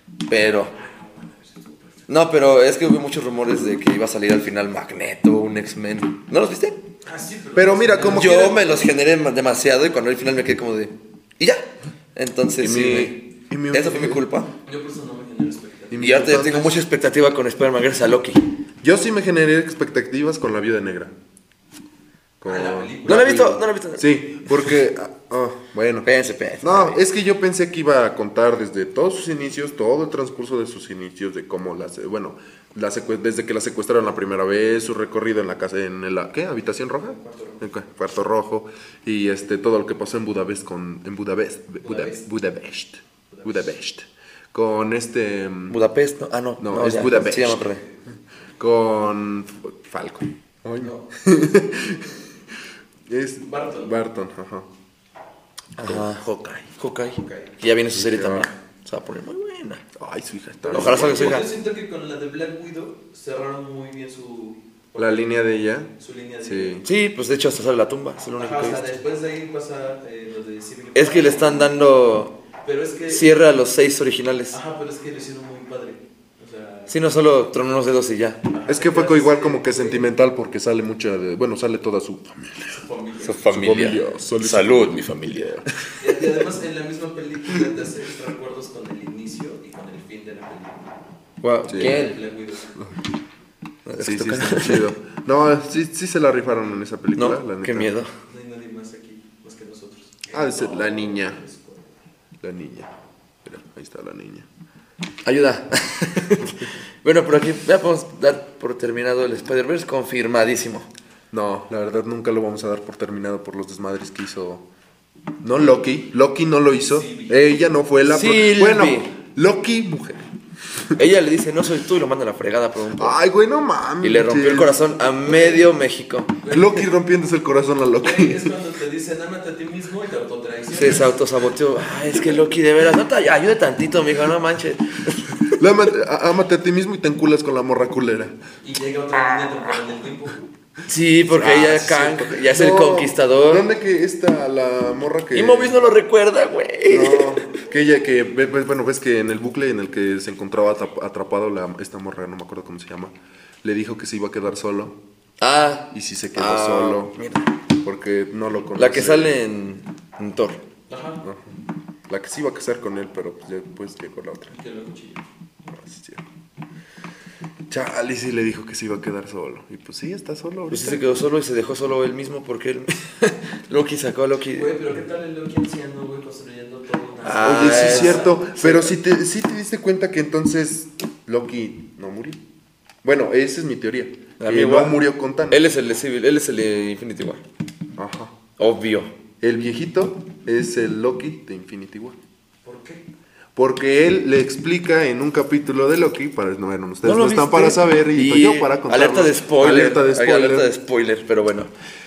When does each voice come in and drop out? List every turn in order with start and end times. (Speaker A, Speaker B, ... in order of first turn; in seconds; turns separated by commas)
Speaker A: 0.3-0.7, Speaker B: 0.7-2.1, Speaker A: 2.1-6.8, Speaker B: 7.0-8.8, Speaker C: 7.5-8.6, Speaker A: 8.1-13.2, Speaker C: 12.6-14.2, Speaker A: 13.7-14.5, Speaker B: 14.7-16.2, Speaker C: 15.9-16.8, Speaker A: 16.0-18.4, Speaker C: 18.8-21.1, Speaker C: 22.4-26.1, Speaker B: 22.4-23.6, Speaker A: 23.0-24.7, Speaker A: 26.0-27.0, Speaker C: 26.6-45.8, Speaker B: 36.9-37.6, Speaker B: 41.8-42.2, Speaker B: 43.3-43.7, Speaker A: 45.7-47.8, Speaker C: 46.6-47.7, Speaker C: 48.6-52.1, Speaker B: 50.8-51.1, Speaker C: 53.1-54.7, Speaker B: 53.4-53.9, Speaker A: 55.8-59.8, Speaker C: 55.8-56.7, Speaker B: 57.2-57.5, Speaker C: 57.9-58.5, Speaker C: 60.0-61.5, Speaker B: 60.7-65.4, Speaker A: 60.7-61.5, Speaker C: 65.0-65.9, Speaker B: 66.0-66.8, Speaker C: 66.4-66.8, Speaker A: 66.8-68.8, Speaker B: 68.4-71.7, Speaker A: 70.9-72.3, Speaker B: 72.6-73.3, Speaker A: 73.1-74.6, Speaker B: 74.5-77.0, Speaker A: 76.9-78.4, Speaker B: 78.5-80.1, Speaker C: 78.7-82.8, Speaker B: 82.7-83.5, Speaker A: 83.2-85.5, Speaker C: 83.4-85.7, Speaker B: 86.0-90.9, Speaker A: 91.4-92.2, Speaker C: 91.7-92.0, Speaker B: 91.7-92.7, Speaker A: 93.8-94.9, Speaker C: 94.0-97.9, Speaker A: 97.2-98.1, Speaker B: 98.2-101.9, Speaker C: 100.3-101.4, Speaker C: 102.4-102.9, Speaker C: 103.4-104.5, Speaker A: 105.2-110.9, Speaker C: 111.3-114.6, Speaker C: 115.4-120.2, Speaker B: 116.8-117.4, Speaker A: 118.0-119.1, Speaker A: 121.0-123.2, Speaker C: 122.9-124.8, Speaker A: 124.0-126.4, Speaker B: 125.2-125.7, Speaker B: 126.4-126.8, Speaker C: 126.5-128.5, Speaker B: 128.0-131.2, Speaker A: 130.7-135.6, Speaker C: 135.5-138.3, Speaker B: 138.6-140.4, Speaker A: 140.8-143.7, Speaker C: 141.3-145.8, Speaker A: 145.3-147.4, Speaker C: 146.9-154.9, Speaker A: 155.4-157.4, Speaker C: 155.9-157.2, Speaker C: 157.8-159.4, Speaker A: 158.7-160.6, Speaker B: 160.9-161.2, Speaker C: 161.2-161.5, Speaker C: 162.1-164.5, Speaker B: 164.5-165.2, Speaker C: 165.7-166.2, Speaker C: 167.7-171.0, Speaker A: 170.7-174.7, Speaker B: 174.5-178.5, Speaker A: 177.2-178.9, Speaker C: 177.4-182.4, Speaker C: 183.0-185.6, Speaker A: 184.4-187.4, Speaker C: 188.0-188.3, Speaker A: 188.6-189.1, Speaker C: 189.4-192.2, Speaker B: 192.6-193.0, Speaker C: 193.6-200.7, Speaker A: 197.0-201.7